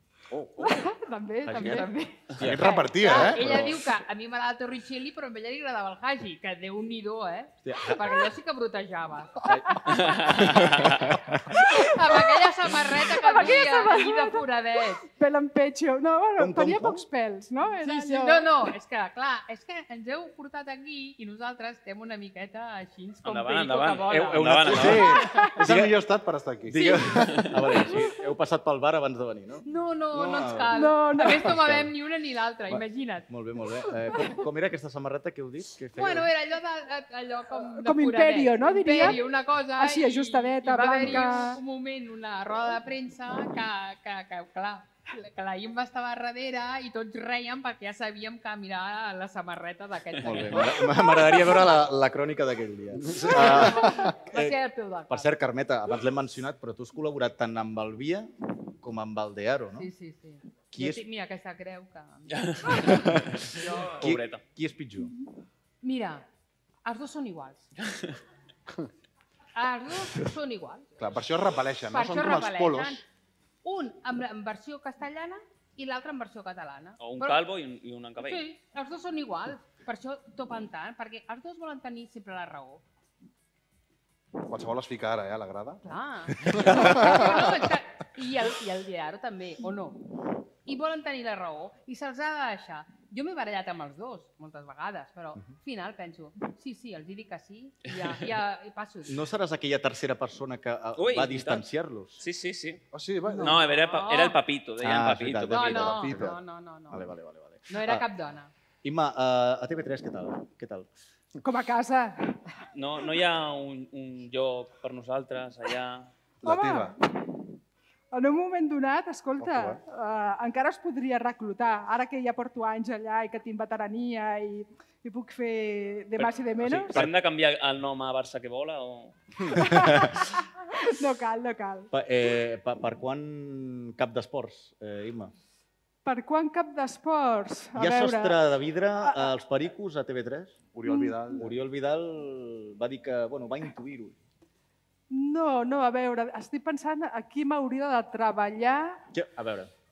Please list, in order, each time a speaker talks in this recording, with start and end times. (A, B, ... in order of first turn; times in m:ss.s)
0:00.3-0:00.8 A
0:00.6-0:02.1 B
0:01.4-0:03.8 A
0:01.5-0:09.6 C
0:02.4-0:03.7 D
0:07.6-0:08.1 A
0:09.4-0:11.8 A
0:09.9-0:11.1 E
0:11.6-0:15.0 C
0:12.1-0:12.4 B
0:13.0-0:18.5 B
0:16.4-0:17.0 A
0:17.8-0:24.4 C
0:23.2-0:25.3 E
0:24.1-0:26.0 A
0:24.5-0:27.0 D
0:25.2-0:25.6 B
0:26.6-0:31.9 A
0:26.7-0:27.1 C
0:29.6-0:33.3 C
0:30.7-0:31.5 B
0:32.7-0:36.3 A
0:35.9-0:51.5 C
0:37.7-0:39.2 B
0:39.7-0:41.6 B
0:50.2-0:54.6 A
0:53.1-0:53.5 D
0:53.3-0:55.3 C
0:55.1-0:59.9 A
0:59.8-1:02.9 C
1:00.7-1:01.0 A
1:02.3-1:04.4 E
1:03.5-1:04.0 C
1:04.0-1:05.1 A
1:05.8-1:06.2 C
1:06.8-1:07.6 C
1:09.5-1:10.9 C
1:11.0-1:13.0 D
1:11.9-1:13.0 C
1:13.6-1:17.4 C
1:17.0-1:18.4 E
1:18.2-1:22.8 C
1:24.4-1:25.8 D
1:25.8-1:30.1 C
1:26.4-1:27.6 D
1:30.6-1:39.2 C
1:39.0-1:42.2 A
1:41.0-1:41.6 E
1:42.2-1:42.8 E
1:42.9-1:43.6 D
1:43.4-1:45.9 E
1:43.4-1:44.4 C
1:44.8-1:46.4 A
1:45.5-1:47.0 C
1:45.9-1:46.4 D
1:46.9-1:48.0 A
1:47.7-1:48.5 C
1:48.8-1:50.9 A
1:51.4-1:52.4 B
1:52.7-1:56.1 E
1:56.4-1:56.9 D
1:56.4-1:57.5 B
1:58.1-2:07.0 B
1:59.4-1:59.8 D
2:06.2-2:09.1 E
2:06.7-2:07.1 A
2:09.5-2:10.2 A
2:09.5-2:11.9 B
2:11.9-2:15.3 A
2:16.0-2:18.4 B
2:17.7-2:20.6 A
2:19.0-2:19.3 B
2:20.7-2:21.5 D
2:20.9-2:21.2 B
2:21.3-2:24.2 A
2:25.1-2:29.0 B
2:29.1-2:29.7 A